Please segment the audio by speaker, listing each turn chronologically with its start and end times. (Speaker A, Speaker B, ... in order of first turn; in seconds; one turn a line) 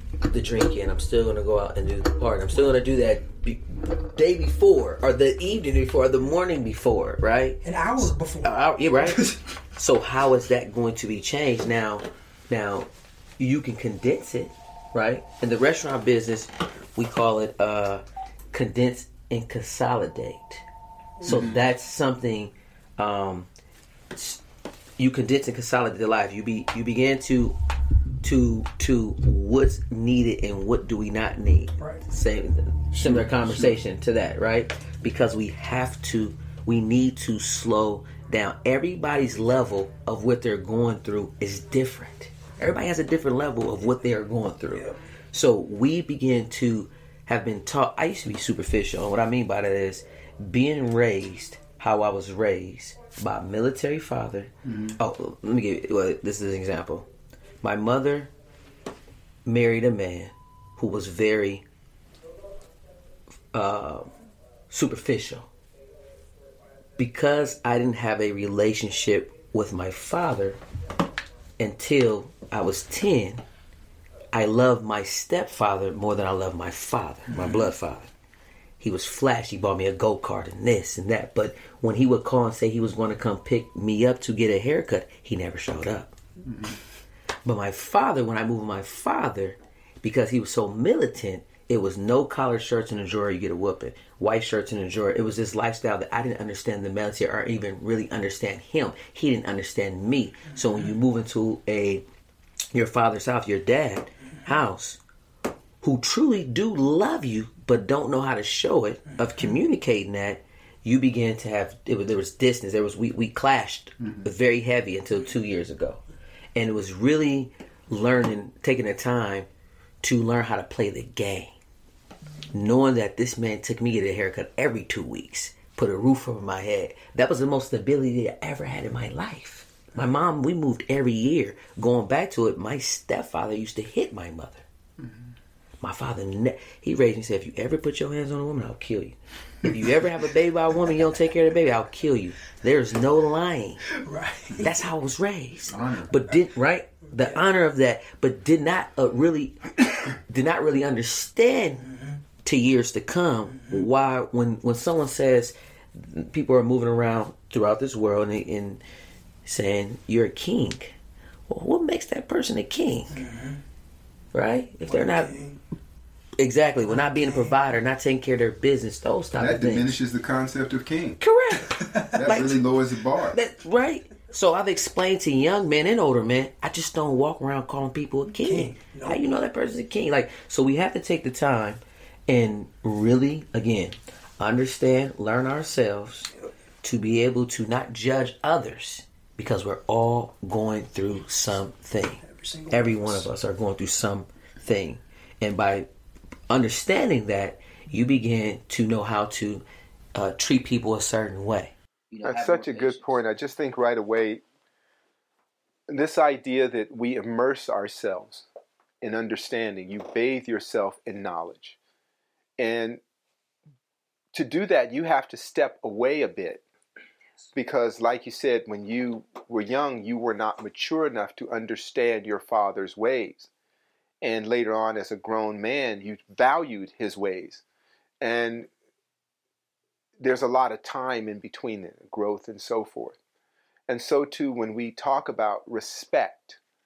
Speaker A: 0.2-20.6
Speaker B: 7.6-9.4
Speaker A: 21.2-23.5
Speaker C: 21.2-21.6
Speaker A: 24.1-24.4
Speaker A: 25.0-27.6
Speaker A: 28.2-57.1
Speaker C: 32.9-33.8
Speaker A: 57.6-58.3
Speaker A: 59.5-61.6
Speaker A: 63.5-64.1
Speaker A: 64.7-65.5
Speaker A: 67.0-70.6
Speaker A: 71.6-73.4
Speaker A: 74.3-78.1
Speaker C: 77.3-77.7
Speaker A: 78.8-86.1
Speaker C: 86.5-86.8
Speaker A: 87.4-102.0
Speaker A: 102.7-105.0
Speaker A: 105.8-116.0
Speaker A: 116.5-119.5
Speaker A: 120.0-121.6
Speaker A: 122.5-134.7
Speaker A: 135.8-143.8
Speaker B: 143.9-144.7
Speaker A: 144.6-158.8
Speaker C: 145.7-146.1
Speaker A: 159.4-160.9
Speaker A: 161.5-163.2
Speaker B: 163.1-163.6
Speaker A: 164.3-165.4
Speaker B: 164.8-165.6
Speaker A: 166.4-170.0
Speaker B: 166.9-167.5
Speaker C: 169.3-171.2
Speaker A: 171.2-172.6
Speaker B: 171.8-172.3
Speaker C: 172.1-173.4
Speaker A: 173.3-186.3
Speaker B: 178.3-179.2
Speaker A: 186.8-195.9
Speaker B: 192.2-193.3
Speaker A: 196.5-199.6
Speaker A: 200.1-203.2
Speaker D: 202.2-204.4
Speaker D: 205.9-208.5
Speaker D: 209.0-211.8
Speaker D: 212.6-213.0
Speaker D: 214.3-216.6
Speaker D: 217.5-223.5
Speaker D: 224.2-227.6
Speaker D: 228.2-228.7
Speaker D: 230.2-233.2
Speaker D: 233.9-236.6